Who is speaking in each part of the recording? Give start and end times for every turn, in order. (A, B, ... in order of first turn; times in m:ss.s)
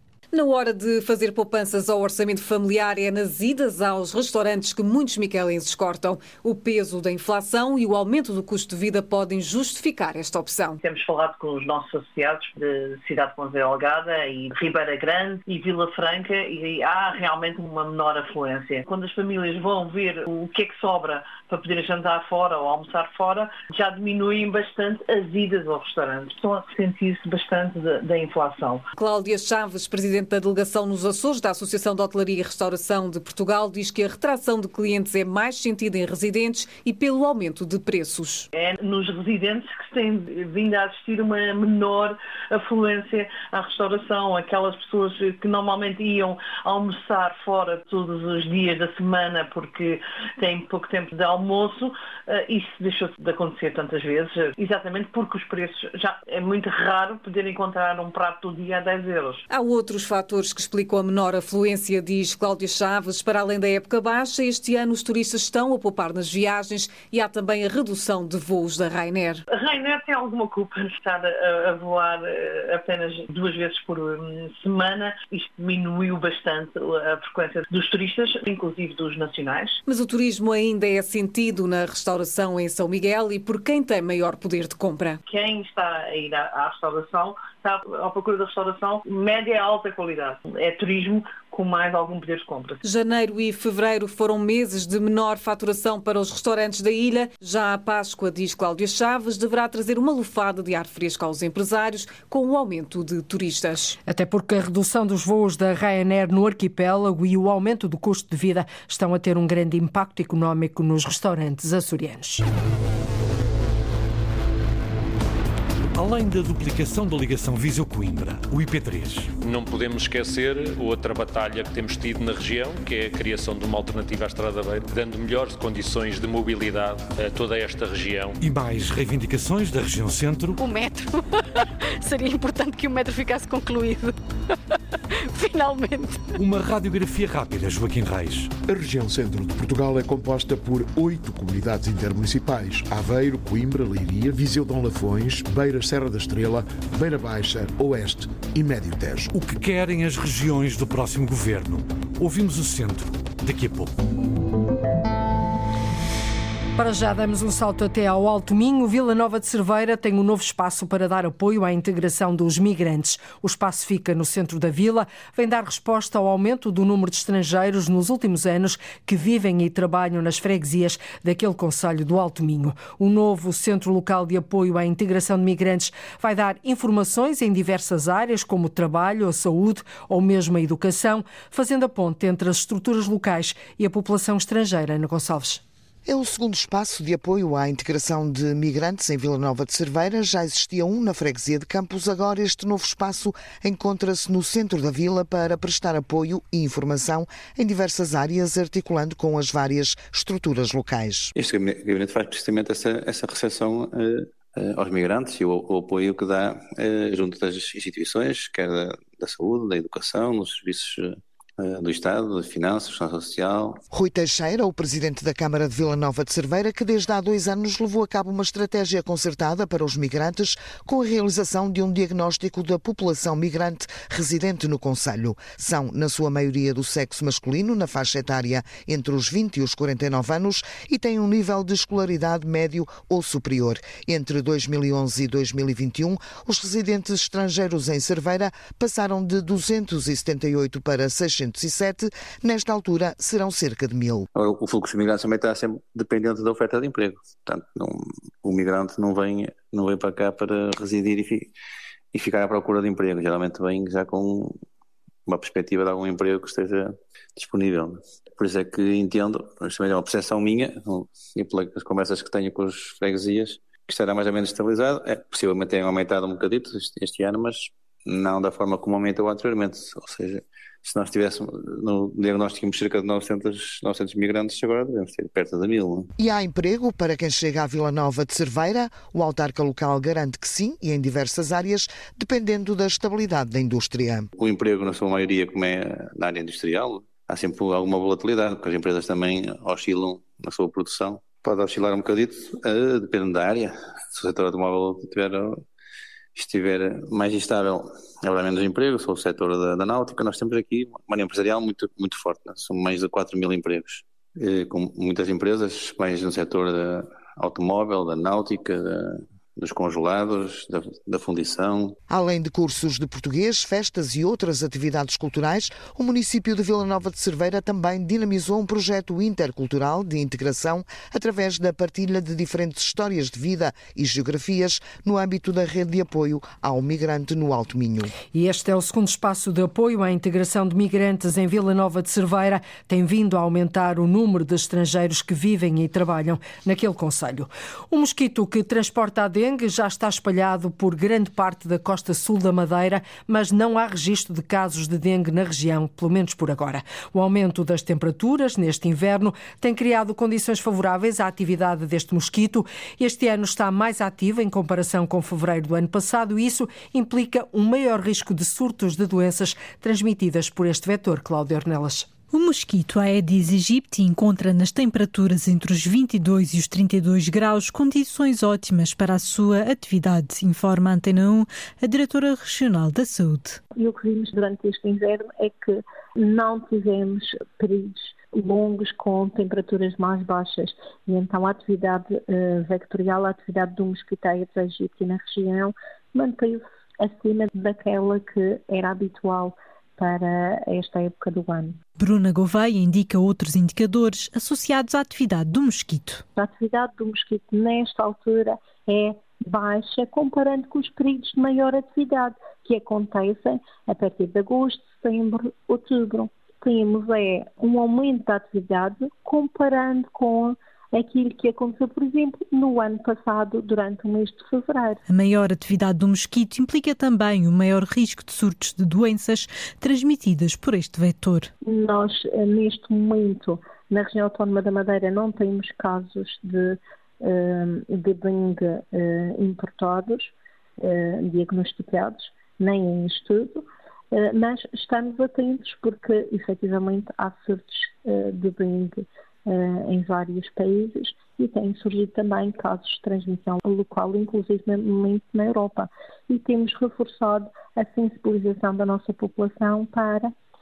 0:00.3-0:10.8 A
0:10.8-0:28.8 B
0:29.0-0:38.5 A
0:38.5-0:59.4 B
0:59.5-1:09.4 A
1:09.5-1:19.8 B
1:19.9-1:25.2 A
1:25.2-1:32.8 B
1:32.8-1:44.0 A
1:44.0-1:52.4 C
1:55.9-1:59.3 D
1:59.4-2:08.4 E
2:08.4-2:10.6 D
2:10.6-2:14.1 F
2:15.3-2:16.3 F
2:16.4-2:18.5 D
2:18.7-2:29.3 G
2:29.3-2:33.9 D
2:36.8-3:05.6 C
3:06.0-3:21.3 H
3:21.4-3:33.8 I
3:33.9-4:04.2 H
4:04.3-4:11.5 I
4:12.1-4:14.6 I
4:15.3-4:36.1 I
4:36.2-4:44.3 H
4:44.4-4:55.6 I
4:56.4-5:12.0 I
5:12.1-5:28.1 H
5:28.3-6:02.1 C
6:02.3-6:13.6 J
6:13.8-6:31.8 K
6:32.0-6:36.2 J
6:36.4-6:55.0 K
6:55.1-7:01.5 J
7:01.6-7:30.3 K